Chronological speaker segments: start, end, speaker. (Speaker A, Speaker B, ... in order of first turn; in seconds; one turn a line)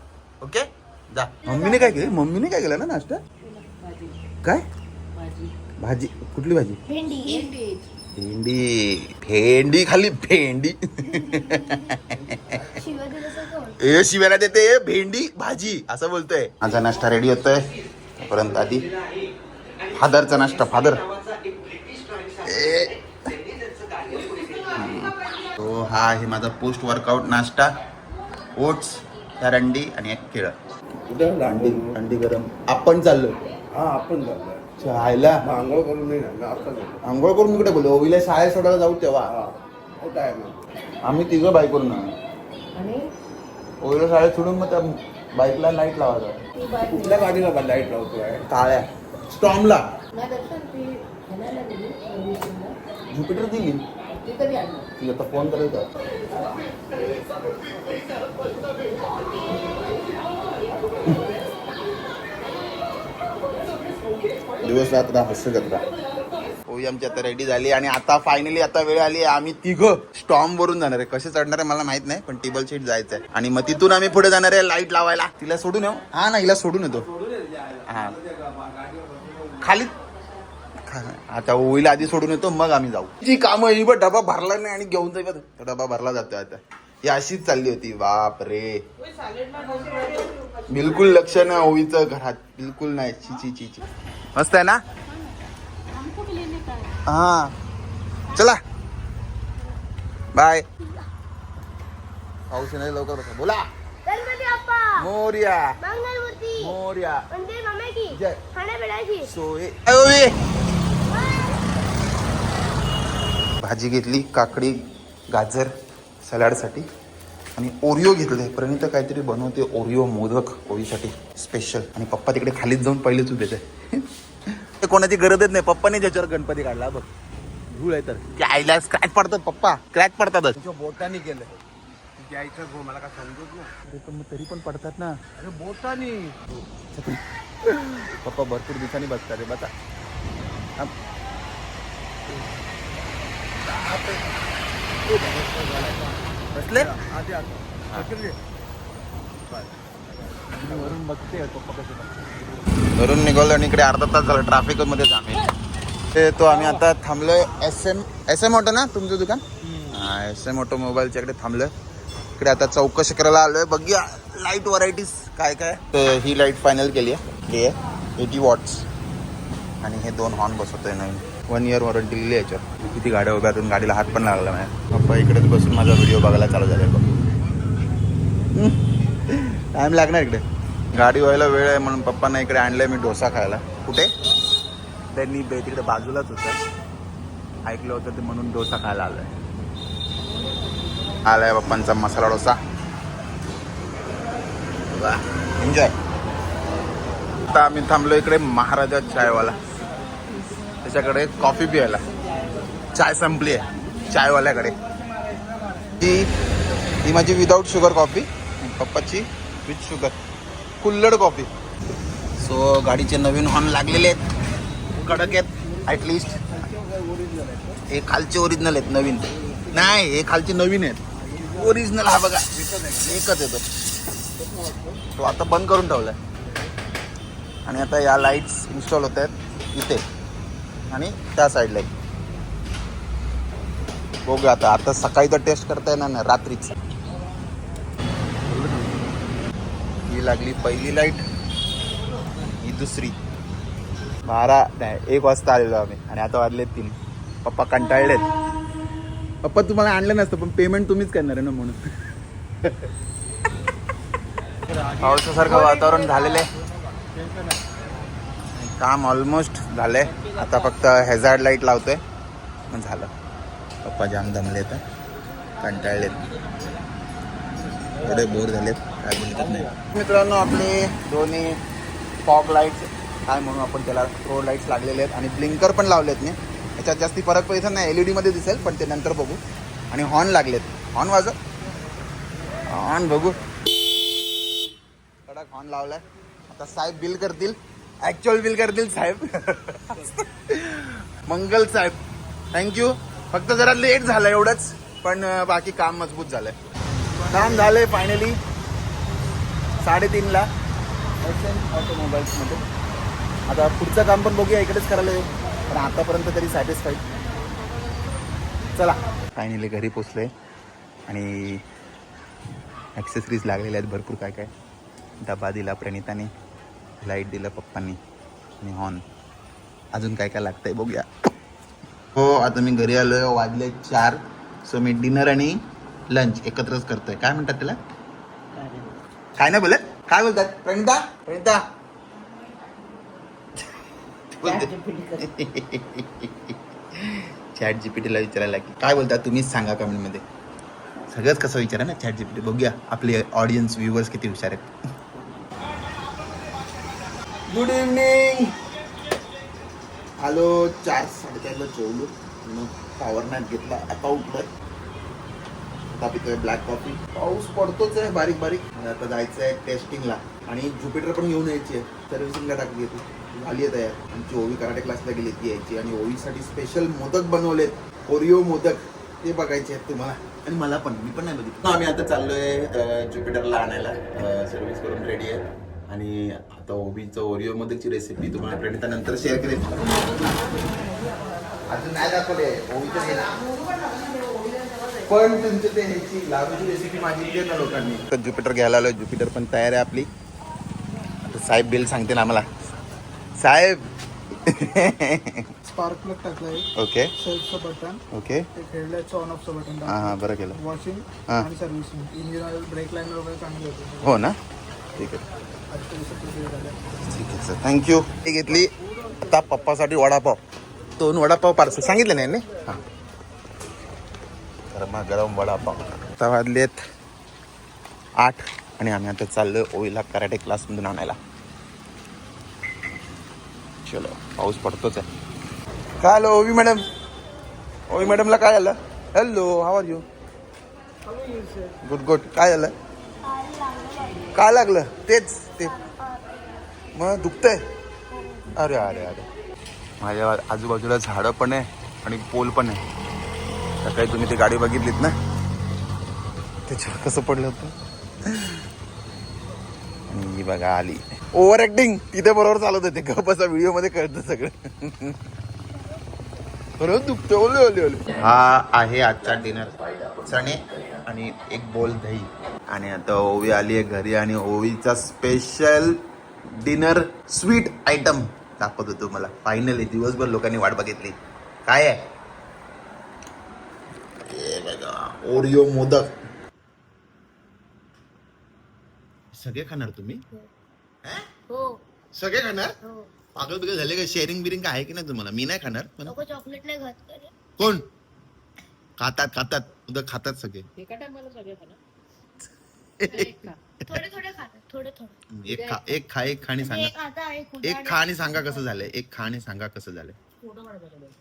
Speaker A: 0.4-3.2
Speaker B: 3.5-4.2
Speaker B: 5.2-5.5
Speaker A: 5.8-6.8
Speaker C: 6.9-7.5
Speaker B: 7.2-7.9
Speaker A: 8.1-12.8
Speaker C: 12.8-13.8
Speaker A: 13.8-17.7
Speaker A: 18.2-18.9
Speaker A: 20.0-21.0
Speaker A: 22.4-23.0
Speaker A: 24.7-27.7
Speaker A: 28.6-30.6
Speaker D: 31.1-32.0
Speaker A: 31.4-33.4
Speaker D: 33.7-34.7
Speaker A: 34.8-35.4
Speaker D: 35.4-37.0
Speaker A: 37.0-39.3
Speaker D: 39.3-40.7
Speaker A: 41.0-42.1
Speaker B: 42.8-43.1
Speaker A: 43.8-46.4
Speaker B: 46.6-47.4
Speaker D: 46.9-48.4
Speaker A: 48.5-49.9
Speaker B: 50.1-52.8
Speaker A: 53.1-53.8
Speaker B: 54.2-54.9
Speaker A: 55.0-55.9
Speaker A: 64.6-65.8
Speaker A: 66.7-77.1
Speaker A: 77.9-78.2
Speaker A: 79.6-80.0
Speaker A: 80.8-88.8
Speaker B: 89.7-90.2
Speaker A: 90.7-94.8
Speaker B: 96.1-96.8
Speaker A: 97.1-97.5
Speaker A: 98.3-98.6
Speaker A: 100.3-100.7
Speaker A: 102.5-103.7
Speaker C: 104.1-105.1
Speaker A: 105.0-105.8
Speaker C: 105.8-106.8
Speaker A: 106.6-107.3
Speaker C: 107.3-109.3
Speaker A: 108.1-108.4
Speaker A: 109.2-110.4
Speaker C: 111.0-111.6
Speaker A: 113.6-116.9
Speaker A: 117.6-124.0
Speaker A: 124.6-127.1
Speaker A: 127.7-130.6
Speaker D: 130.6-131.6
Speaker D: 132.2-133.7
Speaker A: 133.8-135.2
Speaker D: 135.4-136.6
Speaker A: 136.9-139.7
Speaker D: 145.1-146.2
Speaker A: 146.5-146.9
Speaker D: 146.8-148.4
Speaker D: 150.3-152.2
Speaker A: 153.0-155.5
Speaker A: 156.1-161.7
Speaker A: 162.4-168.9
Speaker A: 169.8-177.1
Speaker A: 178.5-184.1
Speaker A: 185.1-186.6
Speaker A: 187.7-189.3
Speaker A: 191.3-192.6
Speaker A: 194.9-195.9
Speaker A: 197.5-199.6
Speaker A: 200.8-202.1
Speaker A: 202.9-204.8
Speaker A: 206.0-206.3
Speaker A: 207.0-210.2
Speaker A: 210.8-211.5
Speaker A: 212.4-214.2
Speaker A: 215.0-216.4
Speaker D: 215.0-217.8
Speaker A: 217.9-223.6
Speaker D: 219.4-219.8
Speaker D: 221.2-221.8
Speaker D: 222.5-223.2
Speaker D: 224.4-225.0
Speaker A: 225.2-226.2
Speaker A: 227.7-230.0
Speaker A: 230.9-231.9
Speaker A: 234.3-236.8
Speaker D: 238.5-239.0
Speaker A: 240.1-241.2
Speaker A: 242.6-243.2
Speaker A: 244.3-248.3
Speaker A: 249.4-251.8
Speaker A: 255.0-256.5
Speaker C: 255.6-256.0
Speaker A: 258.6-262.0
Speaker A: 262.7-263.1
Speaker A: 263.9-264.8
Speaker A: 265.6-266.2
Speaker A: 268.0-271.6
Speaker A: 272.2-279.4
Speaker A: 279.9-281.4
Speaker A: 282.7-283.4
Speaker A: 285.3-292.0
Speaker A: 292.5-296.6
Speaker A: 297.2-298.4
Speaker E: 297.3-297.8
Speaker A: 299.8-300.5
Speaker A: 301.2-302.6
Speaker A: 303.5-307.0
Speaker A: 308.8-310.3
Speaker A: 311.1-311.6
Speaker A: 313.0-314.5
Speaker A: 315.2-316.3
Speaker A: 317.0-318.0
Speaker A: 318.6-319.0
Speaker A: 319.9-321.1
Speaker A: 322.1-325.6
Speaker A: 326.1-327.8
Speaker B: 328.6-328.9
Speaker A: 329.4-331.6
Speaker A: 334.4-340.2
Speaker B: 334.4-335.2
Speaker A: 341.1-344.7
Speaker A: 347.5-348.5
Speaker A: 350.2-354.5
Speaker A: 355.9-380.1
Speaker A: 381.7-383.5
Speaker B: 383.8-384.8
Speaker A: 385.0-390.1
Speaker A: 391.3-392.5
Speaker A: 393.4-393.8
Speaker A: 394.4-395.5
Speaker E: 395.7-398.0
Speaker A: 396.8-397.1
Speaker A: 398.1-398.5
Speaker E: 398.6-404.2
Speaker A: 399.9-400.6
Speaker A: 404.0-404.3
Speaker A: 405.0-405.2
Speaker E: 405.7-406.8
Speaker A: 407.1-410.4
Speaker A: 411.0-412.8
Speaker A: 414.7-416.8
Speaker A: 418.2-421.2
Speaker A: 423.9-425.1
Speaker A: 426.0-426.8
Speaker A: 427.9-430.0
Speaker A: 431.8-432.7
Speaker C: 433.2-434.3
Speaker A: 434.3-435.8
Speaker C: 435.8-436.3
Speaker A: 436.9-437.6
Speaker C: 438.1-438.5
Speaker A: 438.6-439.3
Speaker A: 440.0-442.8
Speaker A: 443.8-445.1
Speaker A: 446.7-447.7
Speaker A: 448.3-448.6
Speaker A: 450.1-455.2
Speaker A: 456.8-466.0
Speaker A: 466.6-472.0
Speaker A: 474.3-476.1
Speaker A: 479.3-480.2
Speaker A: 482.1-482.8
Speaker C: 482.8-483.1
Speaker A: 483.4-486.2
Speaker C: 486.1-487.3
Speaker A: 487.6-487.9
Speaker A: 489.0-490.7
Speaker B: 490.8-491.8
Speaker A: 493.0-493.5
Speaker B: 493.1-493.6
Speaker C: 493.9-495.2
Speaker A: 495.3-496.9
Speaker B: 495.5-496.0
Speaker C: 496.6-498.6
Speaker A: 497.6-500.2
Speaker B: 500.6-500.9